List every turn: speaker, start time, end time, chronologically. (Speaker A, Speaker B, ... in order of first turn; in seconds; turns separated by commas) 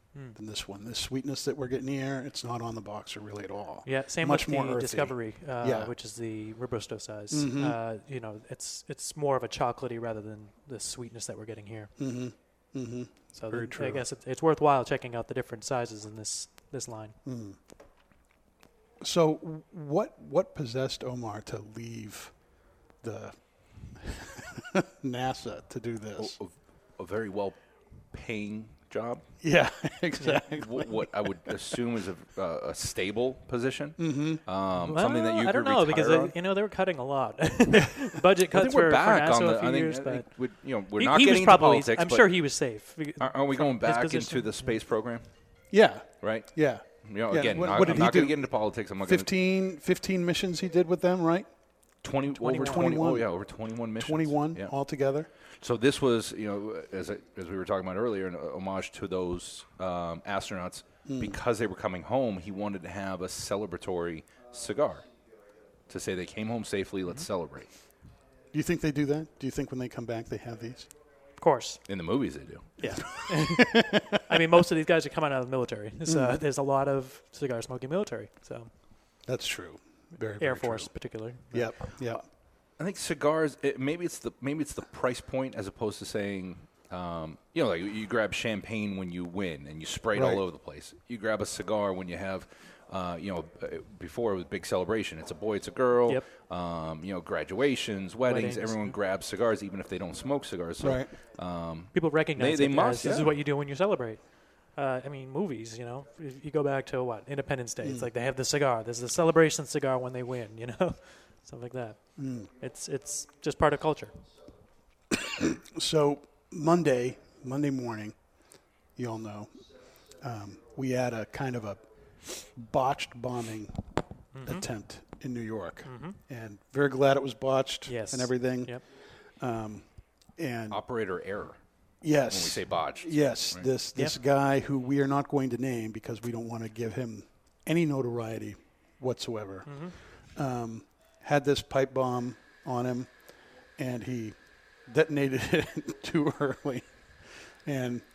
Speaker A: 0.3-5.9, Speaker B: 3.9-11.9, Speaker A: 7.3-7.8, Speaker A: 12.0-14.0, Speaker B: 13.3-17.2, Speaker A: 17.2-17.6, Speaker A: 19.0-22.3, Speaker A: 23.0-23.4, Speaker A: 23.9-26.4, Speaker C: 26.2-27.6, Speaker C: 28.1-29.2, Speaker A: 29.4-31.8, Speaker B: 30.2-30.4, Speaker C: 30.6-36.3, Speaker A: 34.0-34.4, Speaker B: 34.9-40.3, Speaker C: 38.5-42.3, Speaker B: 41.0-44.8, Speaker C: 43.2-45.2, Speaker A: 45.7-48.5, Speaker C: 46.2-46.5, Speaker C: 47.0-49.3, Speaker A: 49.0-51.5, Speaker C: 52.0-54.7, Speaker B: 52.3-53.0, Speaker A: 52.5-53.3, Speaker A: 54.0-55.3, Speaker C: 55.6-65.0, Speaker A: 61.0-61.4, Speaker C: 65.9-67.7, Speaker A: 68.5-70.9, Speaker B: 71.4-71.8, Speaker C: 71.9-72.8, Speaker B: 72.8-78.7, Speaker A: 72.8-74.2, Speaker A: 76.1-76.4, Speaker A: 79.3-80.9, Speaker B: 80.4-81.7, Speaker A: 81.5-82.2, Speaker C: 82.8-103.3, Speaker A: 90.1-90.4, Speaker B: 98.3-99.0, Speaker A: 100.8-101.1, Speaker B: 101.9-104.2, Speaker B: 104.7-112.0, Speaker A: 107.8-108.1, Speaker A: 112.2-112.5, Speaker B: 112.6-114.2, Speaker A: 115.1-118.2, Speaker A: 119.0-119.5, Speaker A: 120.2-123.8, Speaker B: 124.3-124.7, Speaker A: 124.4-128.8, Speaker B: 125.8-126.2, Speaker B: 127.9-128.8, Speaker A: 129.4-129.8, Speaker A: 130.4-130.8, Speaker C: 130.7-131.6, Speaker A: 132.0-139.8, Speaker C: 132.3-133.7, Speaker B: 139.7-139.9, Speaker A: 140.3-143.1, Speaker A: 143.8-146.9, Speaker A: 147.7-148.0